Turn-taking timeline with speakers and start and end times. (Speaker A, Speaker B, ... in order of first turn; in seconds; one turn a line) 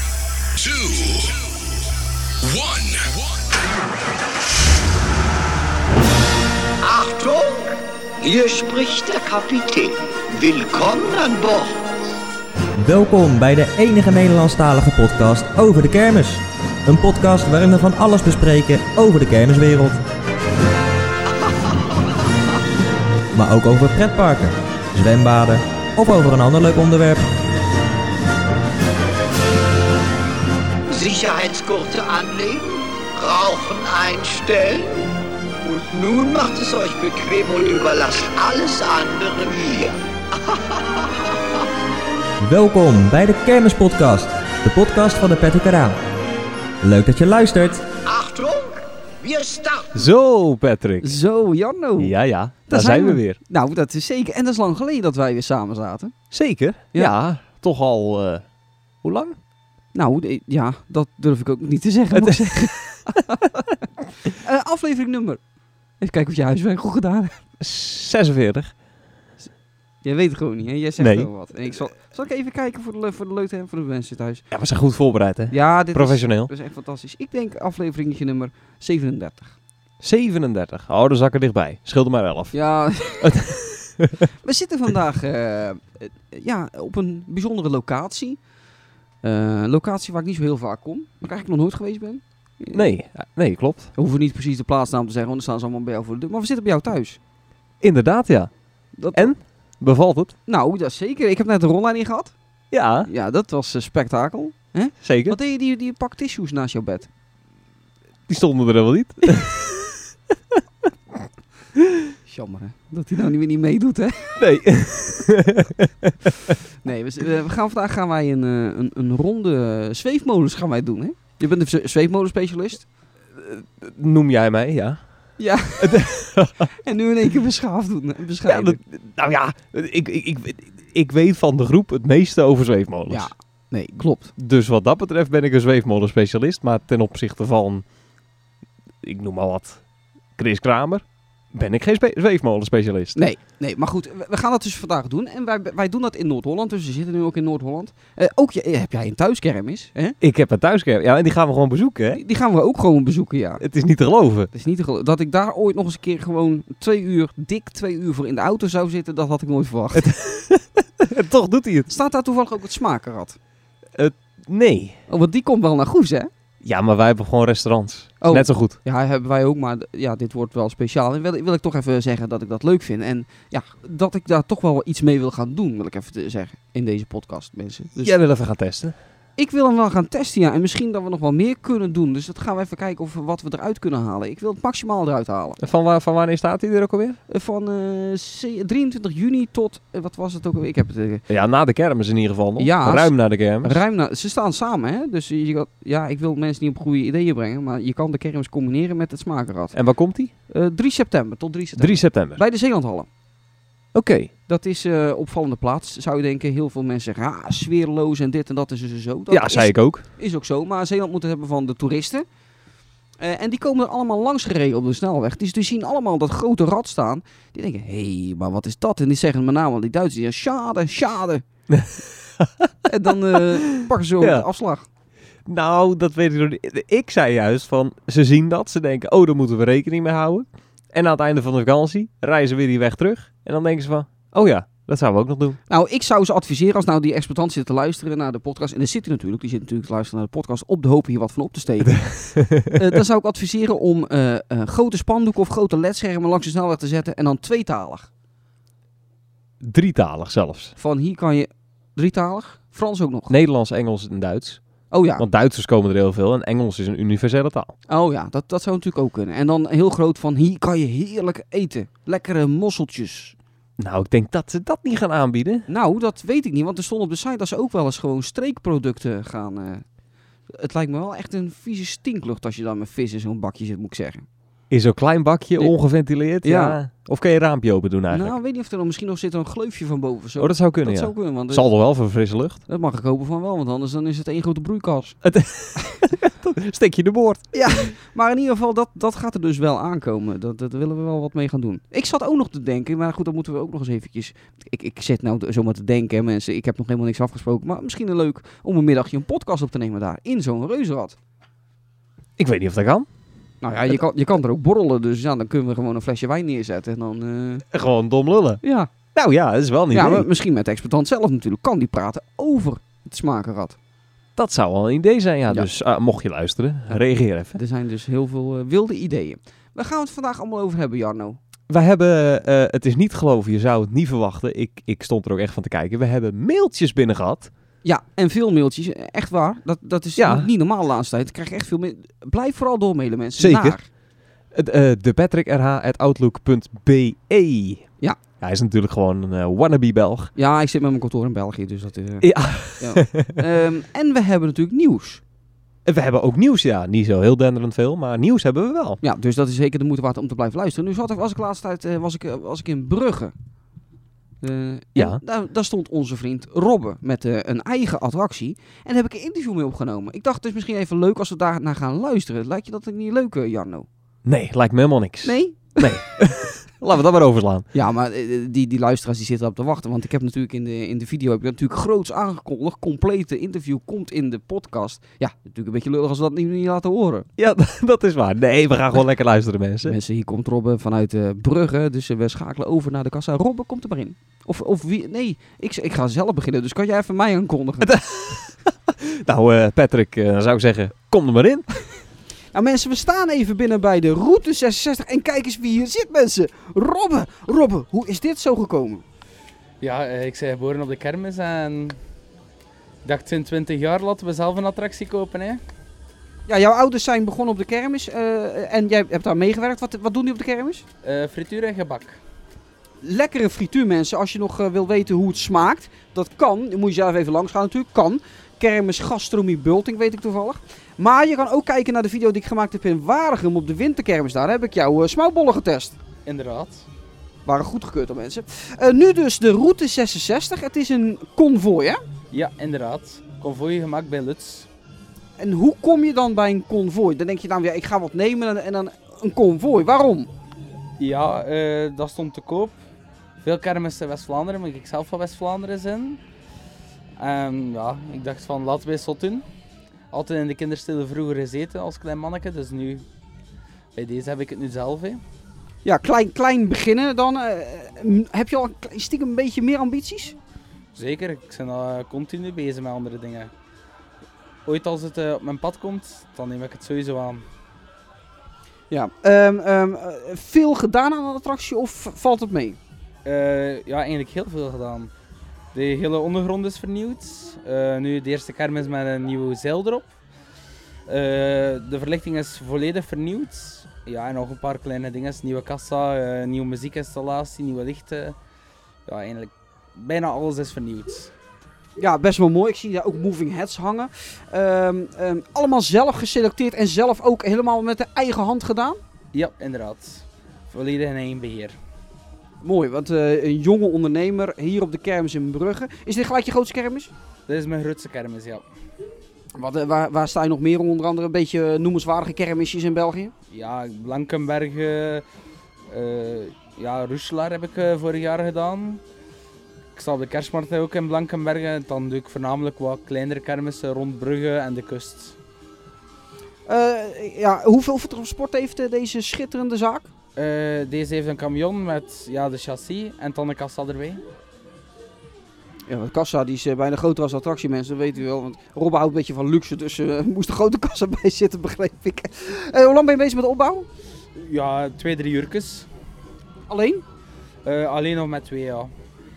Speaker A: 0.6-1.4
Speaker A: 2.4-3.5
Speaker B: 6.8-11.8
Speaker C: 12.8-20.0
Speaker B: 21.3-22.2
Speaker C: 23.3-27.3
Speaker B: 30.9-35.0
Speaker B: 35.6-41.4
Speaker C: 42.4-46.0
Speaker C: 46.8-47.9
Speaker B: 48.0-50.0
Speaker D: 49.9-51.2
Speaker E: 51.0-52.1
Speaker D: 52.0-53.4
Speaker E: 52.7-56.1
Speaker D: 56.3-58.5
Speaker D: 59.0-59.4
Speaker E: 59.9-63.6
Speaker D: 62.1-63.1
Speaker E: 64.2-65.4
Speaker E: 66.0-67.4
Speaker D: 67.6-68.7
Speaker E: 70.0-74.4
Speaker D: 71.0-71.3
Speaker D: 74.5-76.5
Speaker E: 75.5-79.5
Speaker D: 80.0-82.5
Speaker E: 82.5-83.4
Speaker D: 83.2-84.3
Speaker E: 84.4-88.4
Speaker E: 89.2-92.9
Speaker D: 92.7-93.9
Speaker E: 94.0-97.2
Speaker D: 97.8-98.5
Speaker E: 99.0-99.3
Speaker D: 99.1-100.3
Speaker E: 100.5-102.3
Speaker D: 102.7-103.1
Speaker E: 103.1-107.1
Speaker D: 105.0-105.4
Speaker D: 108.3-109.9
Speaker E: 112.3-114.4
Speaker D: 114.4-116.5
Speaker E: 116.8-122.9
Speaker D: 123.4-125.0
Speaker E: 125.4-126.1
Speaker D: 125.8-126.7
Speaker E: 126.8-128.8
Speaker D: 128.5-133.3
Speaker E: 133.1-134.3
Speaker D: 134.4-137.8
Speaker D: 139.0-139.8
Speaker D: 140.4-143.2
Speaker E: 143.2-150.2
Speaker D: 150.2-152.2
Speaker E: 152.1-153.6
Speaker D: 153.6-154.5
Speaker E: 154.5-160.1
Speaker D: 159.9-161.9
Speaker E: 161.9-163.4
Speaker D: 163.9-165.0
Speaker E: 165.1-166.3
Speaker D: 166.6-168.8
Speaker E: 168.2-178.1
Speaker D: 178.0-178.9
Speaker E: 179.4-185.6
Speaker D: 185.6-187.2
Speaker E: 187.3-191.3
Speaker D: 191.3-193.8
Speaker E: 192.6-199.8
Speaker D: 199.7-200.3
Speaker E: 200.5-203.1
Speaker D: 201.8-202.4
Speaker D: 203.9-204.3
Speaker E: 204.5-212.2
Speaker D: 209.3-210.1
Speaker E: 213.2-221.4
Speaker D: 221.7-222.7
Speaker E: 222.9-224.9
Speaker D: 224.2-224.5
Speaker D: 225.5-235.6
Speaker E: 235.7-242.0
Speaker D: 241.8-243.0
Speaker E: 242.6-248.1
Speaker D: 249.6-250.7
Speaker E: 250.8-253.3
Speaker D: 253.3-254.6
Speaker E: 254.9-255.3
Speaker D: 255.2-257.7
Speaker E: 257.9-263.4
Speaker D: 263.8-265.7
Speaker E: 265.7-269.9
Speaker E: 270.5-274.3
Speaker D: 274.7-278.4
Speaker E: 276.4-276.8
Speaker E: 278.1-281.7
Speaker D: 280.4-282.6
Speaker E: 282.7-285.2
Speaker D: 285.2-287.5
Speaker E: 287.5-301.2
Speaker D: 302.4-303.1
Speaker E: 303.6-307.7
Speaker D: 307.7-308.6
Speaker E: 308.6-308.9
Speaker D: 309.1-310.3
Speaker E: 309.9-313.8
Speaker D: 314.4-317.6
Speaker E: 317.6-321.4
Speaker D: 321.7-327.5
Speaker E: 327.8-333.9
Speaker D: 330.2-330.5
Speaker D: 333.4-333.8
Speaker D: 334.5-337.9
Speaker D: 338.4-340.3
Speaker E: 340.4-345.2
Speaker D: 342.2-343.4
Speaker D: 345.9-349.0
Speaker E: 349.0-353.3
Speaker E: 354.4-363.9
Speaker D: 364.2-367.7
Speaker E: 365.2-366.0
Speaker E: 367.7-377.3
Speaker D: 377.4-380.0
Speaker E: 379.8-387.9
Speaker D: 387.8-391.7
Speaker E: 392.5-399.0
Speaker F: 399.8-402.0
Speaker F: 403.1-405.6
Speaker E: 406.5-410.9
Speaker F: 411.0-412.2
Speaker E: 413.0-426.0
Speaker F: 426.3-426.9
Speaker E: 427.5-432.0
Speaker F: 432.3-434.7
Speaker E: 435.4-440.3
Speaker F: 441.0-442.8
Speaker F: 443.4-446.2
Speaker F: 447.2-449.4
Speaker F: 450.1-453.0
Speaker F: 453.9-455.2
Speaker E: 455.9-460.4
Speaker F: 460.9-463.5
Speaker F: 464.7-467.4
Speaker E: 468.9-472.8
Speaker F: 473.2-475.1
Speaker F: 475.7-480.1
Speaker F: 481.1-488.4
Speaker F: 489.1-491.3
Speaker E: 492.0-499.0
Speaker F: 499.3-501.8
Speaker E: 502.6-507.1
Speaker F: 507.5-508.6
Speaker E: 509.6-513.3
Speaker F: 513.5-515.2
Speaker F: 515.9-519.0
Speaker F: 520.0-525.4
Speaker E: 526.7-530.1
Speaker F: 530.4-534.2
Speaker E: 535.9-543.9
Speaker F: 544.4-545.9
Speaker E: 546.7-547.0
Speaker F: 547.6-548.9